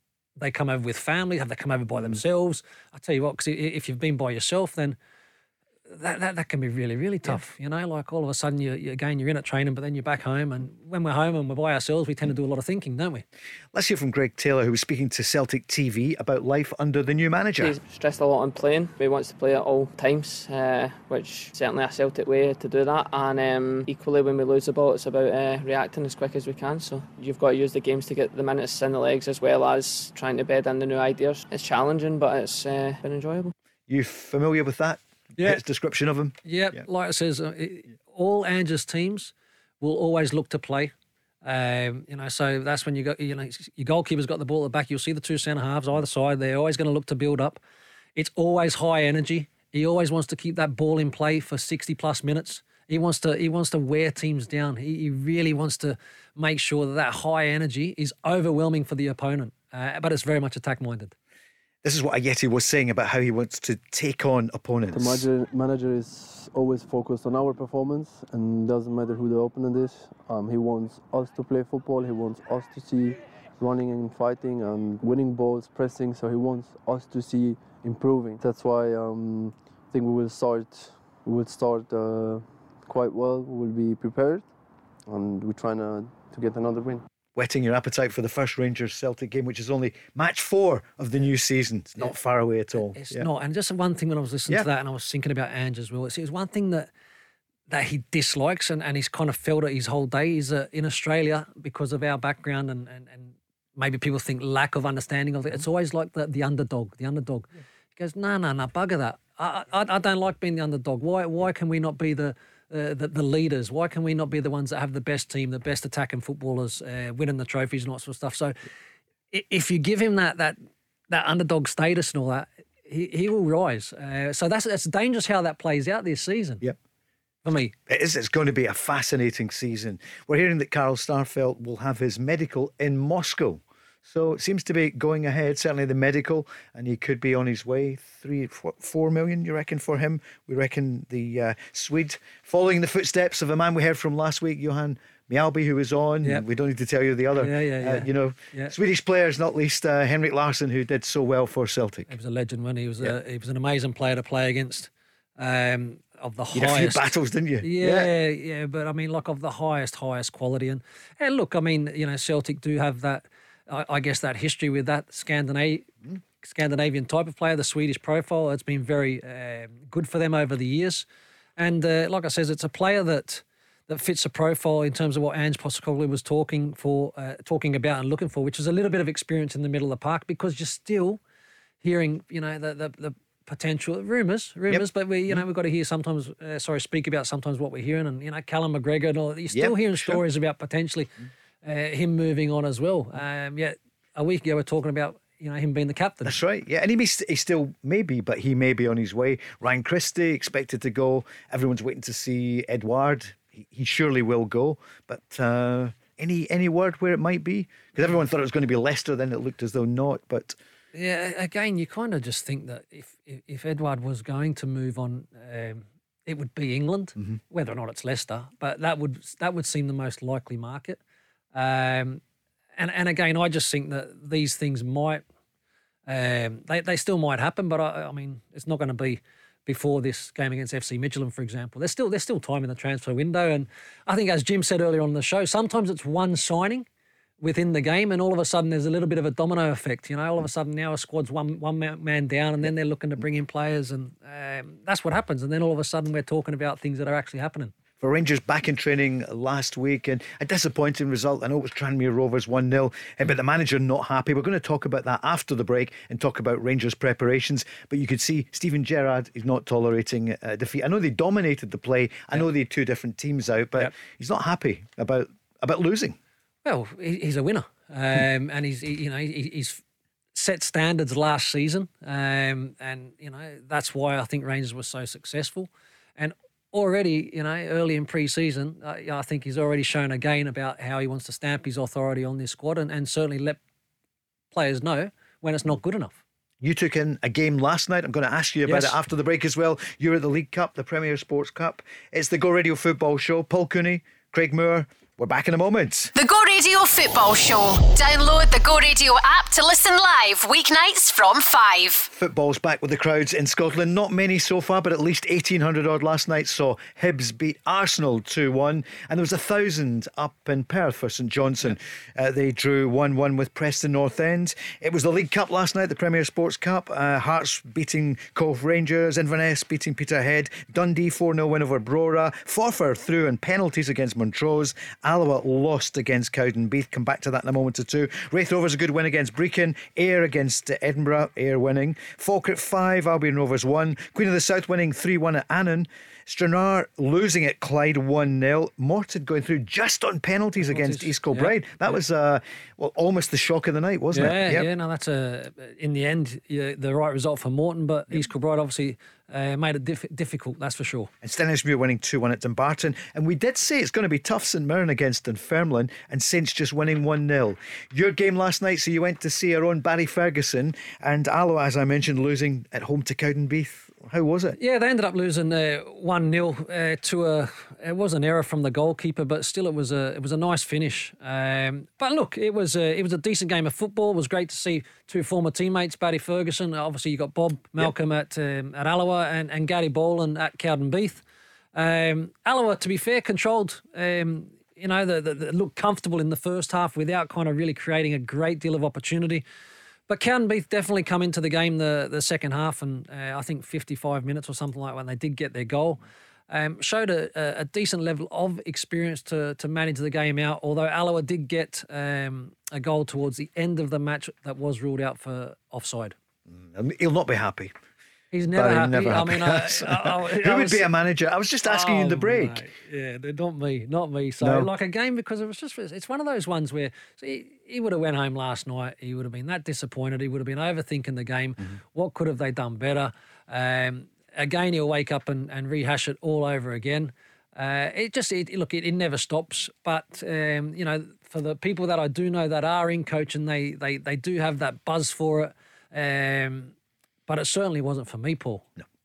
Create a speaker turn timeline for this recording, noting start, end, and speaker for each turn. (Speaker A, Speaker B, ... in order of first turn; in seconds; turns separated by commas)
Speaker A: 0.4-5.0, Speaker A: 5.9-13.2, Speaker B: 13.7-17.8, Speaker C: 17.6-33.5, Speaker B: 33.9-36.8, Speaker A: 35.4-35.6, Speaker A: 36.4-40.9, Speaker A: 41.4-47.6, Speaker A: 48.1-61.1, Speaker B: 61.8-65.2, Speaker D: 64.9-84.5, Speaker D: 85.1-87.0, Speaker B: 87.3-93.3, Speaker A: 92.9-96.9, Speaker A: 97.7-118.6, Speaker A: 119.3-120.6, Speaker A: 121.1-126.6, Speaker A: 127.4-127.7, Speaker B: 127.9-152.1, Speaker A: 147.3-148.7, Speaker A: 152.1-157.1, Speaker B: 156.5-158.1, Speaker A: 157.6-171.1, Speaker A: 171.6-181.2, Speaker A: 181.8-191.1, Speaker B: 184.7-185.4, Speaker B: 189.5-190.2, Speaker A: 191.6-196.4, Speaker B: 196.2-210.6, Speaker A: 210.9-221.0, Speaker A: 221.5-222.2, Speaker A: 222.8-225.2, Speaker A: 226.1-236.8, Speaker A: 237.4-247.7, Speaker B: 248.0-266.2, Speaker A: 266.6-269.8, Speaker A: 270.3-283.6, Speaker A: 284.5-286.2, Speaker B: 286.6-296.1, Speaker A: 288.6-288.9, Speaker E: 296.1-302.1, Speaker B: 302.1-344.7, Speaker A: 340.6-341.5, Speaker A: 344.1-351.1, Speaker B: 351.2-364.6, Speaker A: 364.6-381.2, Speaker A: 381.7-389.4, Speaker A: 390.1-406.1, Speaker B: 406.5-407.7, Speaker A: 408.3-410.9, Speaker B: 408.5-412.6, Speaker A: 411.6-436.7, Speaker B: 414.4-414.7, Speaker A: 437.3-438.7